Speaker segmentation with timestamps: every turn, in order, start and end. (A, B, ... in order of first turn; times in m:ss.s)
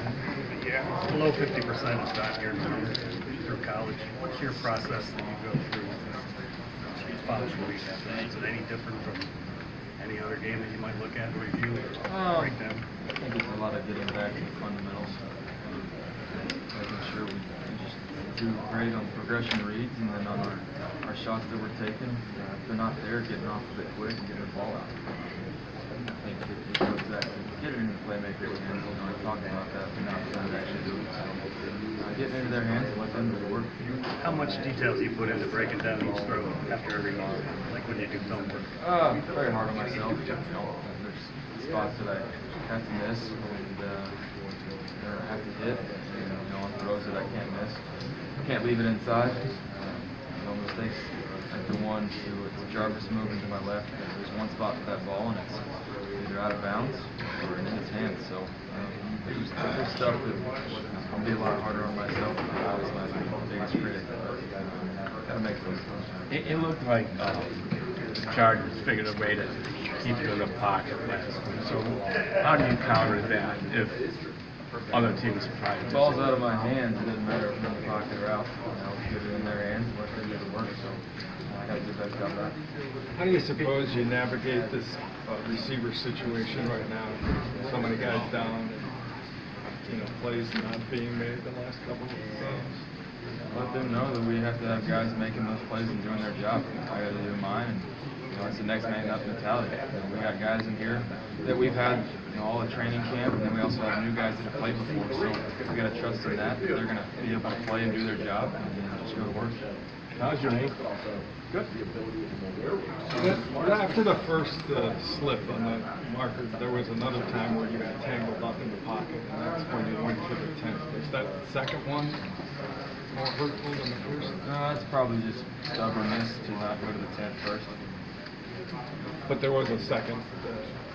0:00.5-0:06.4 A
0:07.0-0:09.3 A
0:10.0-0:12.8 A
0:12.1-0:12.6 B
0:13.2-0:25.1 B
0:26.1-0:31.4 B
0:32.0-0:33.9 B
0:34.2-0:38.7 A
0:38.8-0:44.2 B
0:45.0-0:47.9 B
0:48.4-1:06.0 B
1:06.3-1:07.6 C
1:08.3-1:14.1 C
1:14.9-1:16.3 C
1:15.9-1:22.6 B
1:23.1-1:28.9 D
1:29.9-1:32.8 D
1:33.5-1:49.6 B
1:50.2-1:50.8 C
1:53.1-2:02.2 D
2:03.1-2:04.4 D
2:04.4-2:07.7 B
2:09.3-2:10.8 D